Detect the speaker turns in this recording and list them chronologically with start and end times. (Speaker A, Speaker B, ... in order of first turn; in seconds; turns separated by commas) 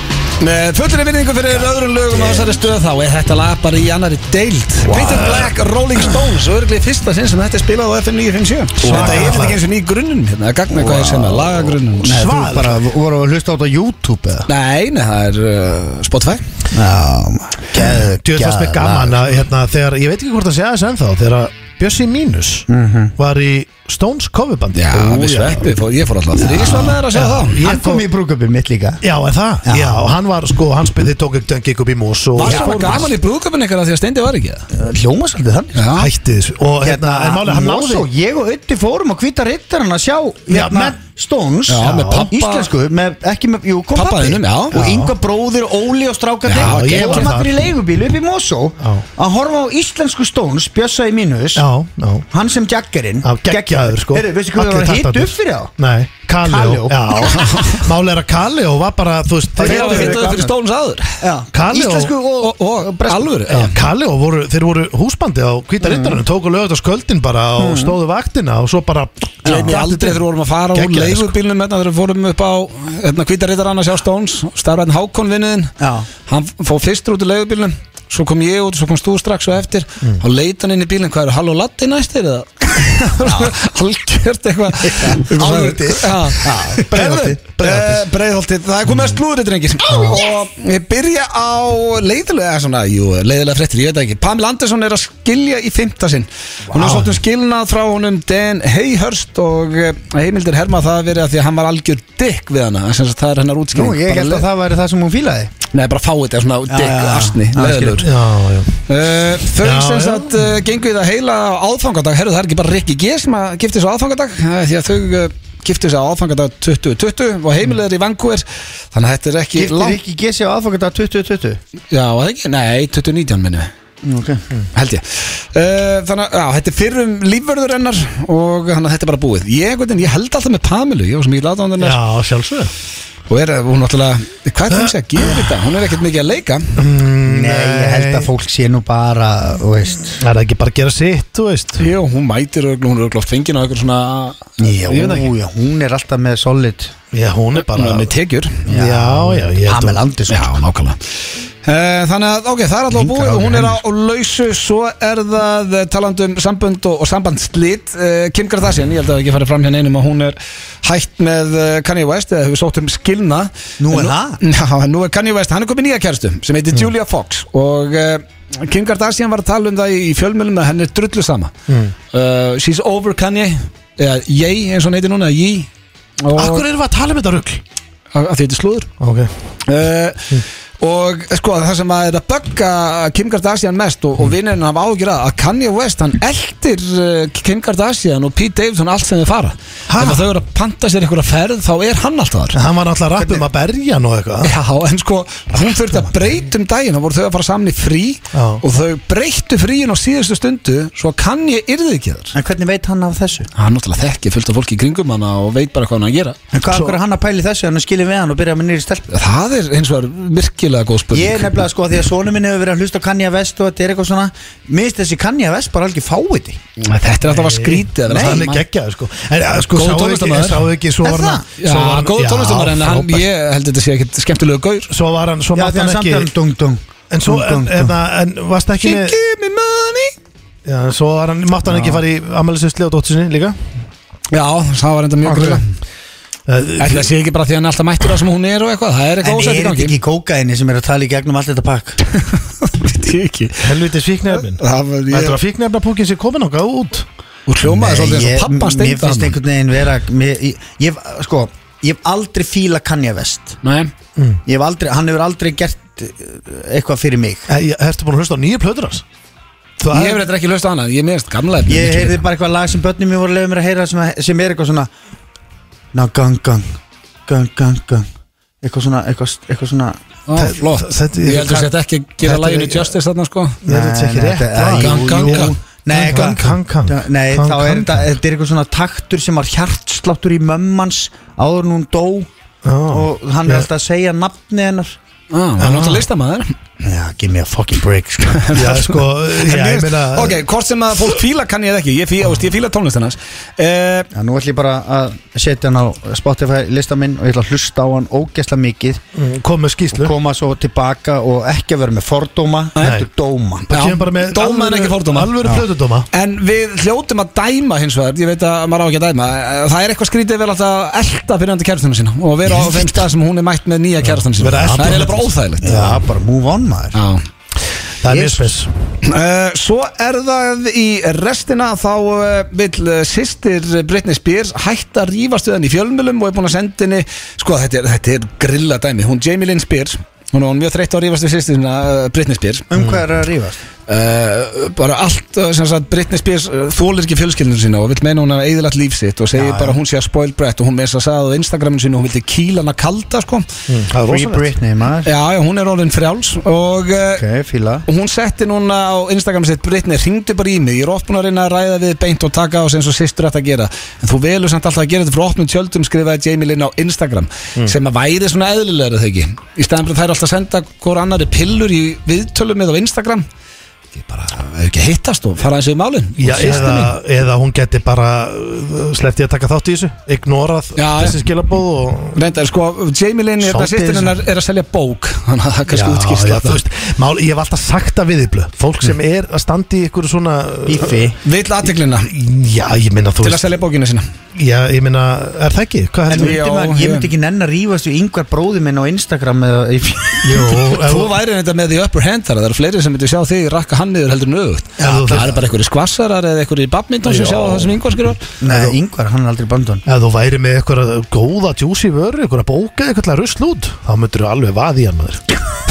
Speaker A: 0.4-12.2, Speaker B: 2.1-2.6, Speaker C: 4.9-5.5, Speaker B: 8.8-9.6, Speaker C: 8.8-9.6, Speaker B: 10.7-14.5, Speaker C: 12.0-12.8, Speaker A: 14.5-16.4, Speaker B: 16.7-19.3, Speaker C: 17.8-22.6, Speaker B: 22.7-23.1, Speaker C: 23.2-25.8, Speaker A: 24.7-27.6, Speaker B: 26.4-27.0, Speaker C: 27.1-28.0, Speaker B: 27.6-29.0, Speaker C: 29.0-33.1, Speaker B: 29.6-30.1, Speaker A: 32.4-34.7, Speaker B: 32.4-33.1, Speaker B: 34.7-35.8, Speaker A: 35.7-36.1, Speaker C: 35.9-38.1, Speaker B: 36.8-51.6, Speaker C: 40.5-41.0, Speaker A: 41.7-42.7, Speaker C: 41.8-42.3, Speaker A: 43.9-44.8, Speaker C: 44.7-45.1, Speaker A: 46.5-47.3, Speaker C: 46.5-47.7, Speaker C: 48.8-49.0, Speaker C: 51.5-52.2, Speaker B: 52.3-55.7, Speaker C: 53.2-60.4, Speaker B: 56.4-57.6, Speaker A: 57.4-57.8, Speaker B: 59.6-60.5, Speaker A: 59.6-61.2, Speaker B: 61.2-63.3, Speaker C: 61.5-62.1, Speaker A: 62.4-63.8, Speaker C: 63.5-71.3, Speaker B: 65.8-66.2, Speaker B: 67.6-68.0, Speaker B: 69.4-69.8, Speaker A: 69.6-75.7, Speaker B: 75.8-76.1, Speaker A: 76.2-104.5, Speaker B: 83.2-83.5, Speaker B: 84.8-88.0, Speaker C: 89.9-90.2, Speaker B: 96.7-97.1, Speaker B: 103.7-105.5, Speaker A: 105.7-108.1, Speaker B: 106.7-108.0, Speaker C: 108.0-108.8, Speaker A: 108.9-120.0, Speaker C: 109.6-110.5, Speaker B: 119.5-121.6, Speaker A: 121.9-123.7, Speaker B: 124.0-124.4, Speaker A: 124.7-132.0, Speaker C: 131.8-132.7, Speaker A: 133.3-136.7, Speaker C: 134.7-135.5, Speaker C: 136.8-138.3, Speaker B: 137.2-140.2, Speaker C: 140.1-141.8, Speaker A: 141.8-145.3, Speaker B: 144.6-146.9, Speaker C: 147.1-148.1, Speaker A: 147.6-148.6, Speaker C: 148.7-150.0, Speaker B: 148.7-150.5, Speaker A: 150.3-151.0, Speaker A: 151.6-171.5, Speaker B: 152.9-153.8, Speaker B: 163.8-164.4, Speaker C: 171.7-171.9, Speaker A: 172.1-175.7, Speaker A: 176.2-176.7, Speaker C: 176.3-177.6, Speaker A: 178.1-178.9, Speaker C: 179.0-179.3, Speaker A: 179.7-192.6, Speaker C: 189.9-190.3, Speaker C: 192.5-194.5, Speaker B: 193.2-193.4, Speaker A: 194.4-202.3, Speaker C: 198.3-198.6, Speaker B: 202.3-203.5, Speaker A: 203.5-206.4, Speaker B: 206.5-209.1, Speaker C: 206.7-207.0, Speaker A: 209.1-211.6, Speaker B: 211.1-216.6, Speaker A: 216.8-218.6, Speaker C: 217.3-223.2, Speaker B: 218.1-218.4, Speaker A: 219.5-220.7, Speaker B: 221.0-221.4, Speaker A: 221.6-224.9, Speaker C: 224.9-226.3, Speaker B: 225.6-227.9, Speaker C: 227.1-229.2, Speaker A: 228.8-230.1, Speaker C: 230.6-233.6, Speaker A: 234.3-235.6, Speaker C: 235.3-235.6, Speaker C: 236.5-237.1, Speaker A: 236.8-239.9, Speaker B: 239.2-242.0, Speaker A: 242.1-243.8, Speaker C: 243.6-247.1, Speaker A: 244.3-245.4, Speaker A: 247.5-249.4, Speaker B: 247.6-253.6, Speaker A: 253.6-253.9, Speaker B: 254.4-257.4, Speaker C: 257.5-259.0, Speaker C: 259.8-260.2, Speaker A: 259.9-262.2, Speaker B: 261.7-264.9, Speaker B: 265.9-268.1, Speaker B: 268.6-270.0, Speaker A: 270.3-273.6, Speaker C: 270.4-272.9, Speaker C: 273.6-278.1, Speaker B: 273.7-282.3, Speaker A: 274.8-275.5, Speaker C: 282.6-283.7, Speaker B: 282.9-285.0, Speaker A: 285.3-286.5, Speaker C: 285.6-286.1, Speaker B: 286.8-288.5, Speaker A: 288.4-294.1, Speaker C: 288.5-290.4, Speaker B: 294.1-299.0, Speaker C: 299.1-300.1, Speaker B: 299.9-303.7, Speaker C: 302.8-303.1, Speaker A: 303.7-305.5, Speaker C: 303.7-306.1, Speaker A: 306.1-315.9, Speaker C: 312.4-313.0, Speaker C: 314.0-315.8, Speaker B: 315.6-317.0, Speaker A: 316.9-317.2, Speaker C: 318.0-318.7, Speaker A: 319.0-332.7, Speaker B: 332.7-333.6, Speaker C: 332.8-333.0, Speaker A: 333.9-343.4, Speaker B: 339.3-339.8, Speaker C: 343.7-344.5, Speaker B: 344.1-345.1, Speaker A: 345.0-347.2, Speaker B: 347.1-347.8, Speaker A: 347.9-363.2, Speaker A: 363.9-366.9, Speaker C: 366.2-372.2, Speaker A: 370.8-371.2, Speaker A: 372.1-376.6, Speaker B: 373.5-374.1, Speaker C: 373.6-373.9, Speaker C: 375.7-381.1, Speaker B: 380.6-381.2, Speaker A: 381.2-382.1, Speaker C: 382.0-383.4, Speaker A: 383.2-384.0, Speaker C: 384.3-386.4, Speaker B: 386.1-390.4, Speaker A: 386.1-387.1, Speaker C: 390.2-391.2, Speaker A: 390.3-398.2, Speaker C: 394.8-395.4, Speaker C: 397.0-397.8, Speaker B: 398.4-399.8, Speaker C: 398.4-398.8, Speaker C: 399.9-405.2